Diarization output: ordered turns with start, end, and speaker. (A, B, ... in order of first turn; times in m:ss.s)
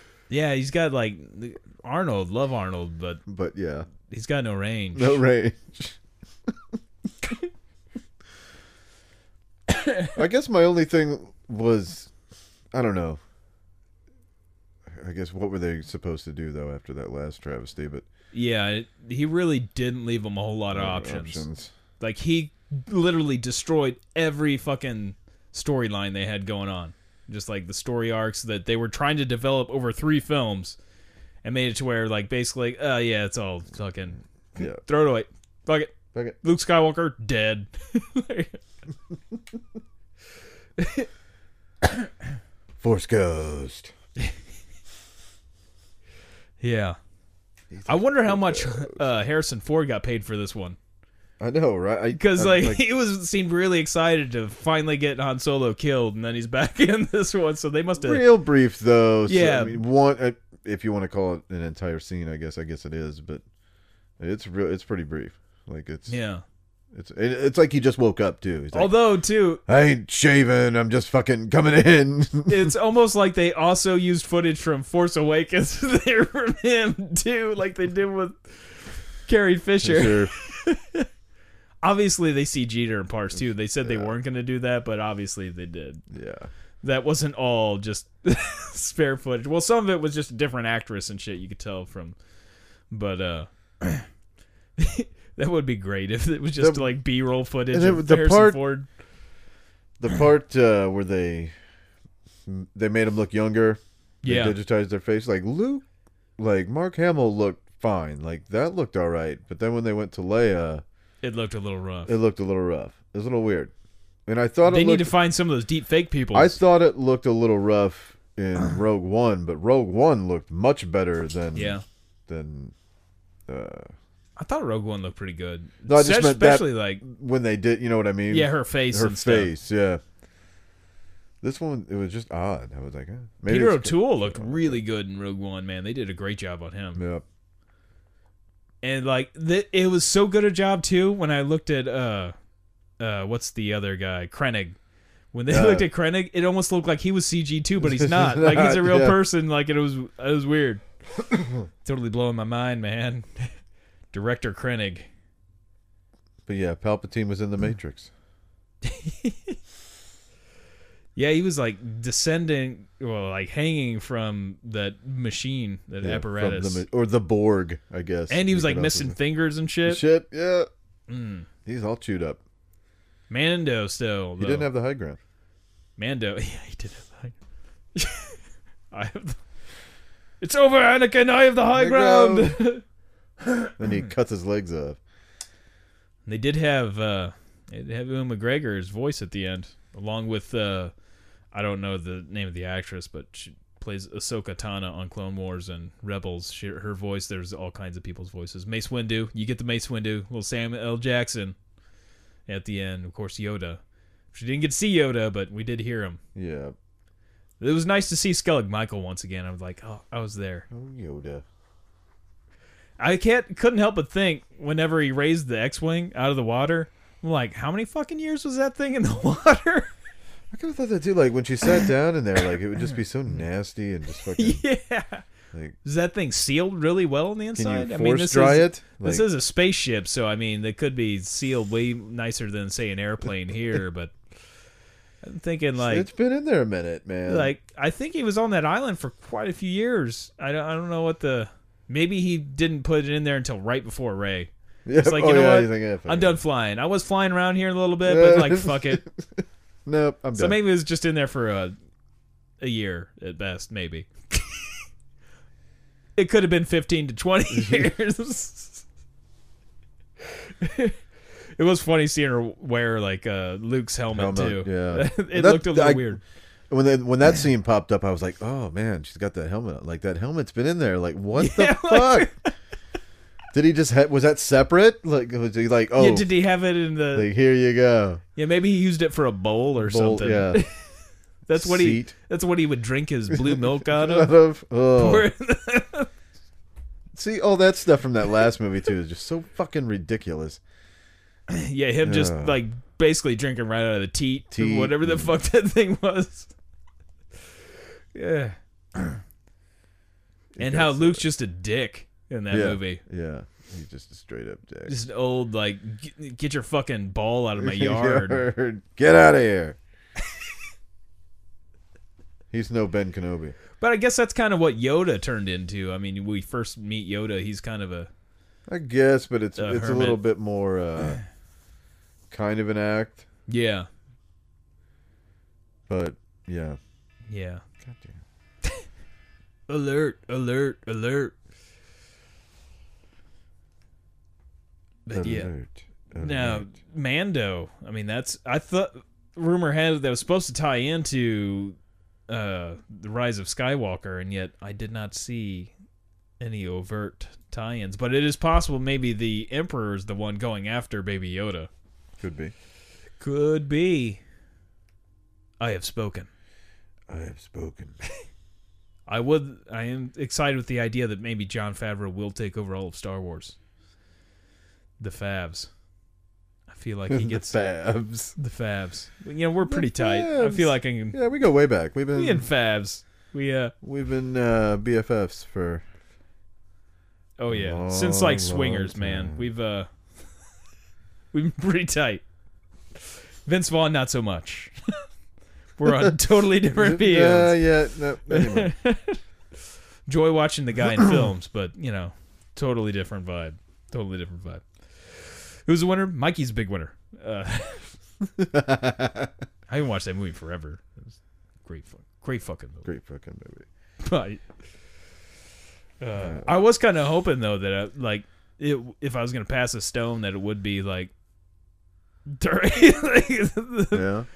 0:00.3-0:03.2 A
0:03.3-0:03.9 B
0:04.1-0:05.2 A
0:04.9-0:06.8 B
0:09.7-0:10.1 A
0:10.1-0:12.1 B
0:12.7-0:13.2 B
0:14.9-0:18.0 B
0:18.3-0:21.4 A
0:20.7-0:21.7 B
0:22.0-0:30.8 A
0:31.4-0:38.6 A
0:34.6-0:34.8 B
0:40.8-0:41.1 A
0:42.8-0:43.9 B
0:46.6-0:47.0 A
0:47.7-0:49.0 B
0:47.9-0:50.8 A
0:51.4-0:52.8 B
0:52.1-0:58.2 A
0:58.0-1:03.4 B
0:59.2-0:59.8 A
1:04.2-1:06.2 B
1:06.1-1:06.4 A
1:06.9-1:09.0 B
1:08.7-1:09.6 A
1:09.6-1:12.7 B
1:12.5-1:21.1 A
1:19.8-1:20.3 B
1:21.8-1:26.0 A
1:23.4-1:24.1 B
1:26.1-1:26.5 B
1:26.8-1:32.2 A
1:32.9-1:34.1 A
1:34.8-1:38.9 A
1:36.6-1:36.9 B
1:37.7-1:38.6 B
1:40.0-1:41.5 B
1:42.4-1:45.8 B
1:44.2-1:44.6 A
1:46.4-1:50.8 B
1:51.2-1:52.1 A
1:52.0-1:53.7 B
1:54.3-1:55.1 B
1:54.6-1:56.6 A
1:56.3-2:02.7 B
2:01.5-2:01.8 A
2:03.5-2:03.9 B
2:04.4-2:07.0 A
2:05.9-2:10.0 B
2:08.3-2:09.5 A
2:11.4-2:14.8 B
2:13.5-2:17.0 A
2:17.0-2:17.2 B
2:18.8-2:22.3 A
2:23.0-2:24.8 A
2:25.3-2:30.8 A
2:25.5-2:25.9 B
2:27.8-2:29.2 B
2:31.8-2:33.5 A
2:34.1-2:35.1 A
2:36.5-2:38.1 B
2:38.8-2:39.6 A
2:41.1-2:46.8 A
2:46.0-2:49.2 B
2:48.3-2:50.0 A
2:49.8-2:50.7 B
2:51.1-2:51.5 A
2:51.6-2:52.4 B
2:53.3-2:54.7 A
2:54.4-2:55.2 B
2:56.0-2:57.3 A
2:57.9-2:58.4 A
2:58.9-2:59.4 A
3:00.4-3:02.8 A
3:01.7-3:02.6 B
3:03.4-3:03.7 A
3:03.8-3:05.0 B
3:06.2-3:10.9 A
3:11.5-3:21.6 A
3:22.5-3:23.8 A
3:24.3-3:26.2 A
3:26.3-3:26.7 B
3:27.6-3:30.6 A
3:30.7-3:31.4 B
3:33.0-3:39.9 A
3:40.5-3:44.6 B
3:44.3-3:45.2 A
3:45.8-3:54.1 A
3:47.5-3:49.3 B
3:55.2-3:56.1 A
3:55.8-3:57.5 B
3:57.3-4:09.0 A
4:04.8-4:06.4 B
4:08.0-4:10.6 B
4:10.3-4:11.7 A
4:12.6-4:14.8 A
4:16.2-4:18.8 A
4:17.5-4:17.9 B
4:20.4-4:21.0 A
4:21.6-4:26.2 A
4:24.1-4:26.2 B
4:26.7-4:32.3 B
4:31.4-4:32.5 A
4:33.5-4:36.3 B
4:36.0-4:37.3 A
4:37.1-4:38.2 B
4:38.4-4:40.8 A
4:39.8-4:40.6 B
4:41.5-4:44.3 A
4:41.5-4:42.1 B
4:43.3-4:45.3 B
4:45.0-4:46.1 A
4:47.1-4:50.6 B
4:51.5-4:56.5 A
4:52.0-4:52.6 B
4:54.5-4:55.4 B
4:58.1-4:59.2 A
5:00.5-5:01.3 B
5:00.6-5:03.0 A
5:02.5-5:04.9 B
5:04.8-5:08.4 A
5:07.6-5:09.8 B
5:12.5-5:13.6 B
5:13.8-5:18.1 A
5:18.7-5:21.2 B
5:19.6-5:20.2 A
5:22.3-5:23.2 B
5:23.5-5:23.9 A
5:25.9-5:26.8 B
5:27.3-5:27.6 A
5:27.8-5:28.2 B
5:29.7-5:31.3 A
5:35.0-5:35.5 A
5:35.1-5:36.7 B
5:36.2-5:41.8 A
5:42.3-5:45.7 A
5:46.4-5:51.7 A
5:52.2-5:52.5 B
5:53.2-5:54.2 A
5:55.6-5:56.3 A
5:57.1-5:58.0 B
5:59.1-6:03.5 A
6:05.0-6:05.7 A
6:06.7-6:07.6 A
6:07.1-6:08.4 B
6:08.4-6:11.2 A
6:09.6-6:12.5 B
6:12.1-6:13.7 A
6:13.8-6:15.8 B
6:17.4-6:19.9 A
6:17.5-6:19.5 B
6:21.3-6:22.2 A
6:23.4-6:25.0 A
6:25.8-6:27.6 A
6:25.8-6:26.1 B
6:26.8-6:28.7 B
6:28.3-6:29.2 A
6:30.1-6:37.9 A
6:38.4-6:39.3 B
6:39.7-6:42.8 A
6:42.8-6:43.6 B
6:44.0-6:44.4 A
6:46.0-6:51.1 A
6:46.2-6:46.5 B
6:52.3-6:54.1 A
6:53.9-6:54.3 B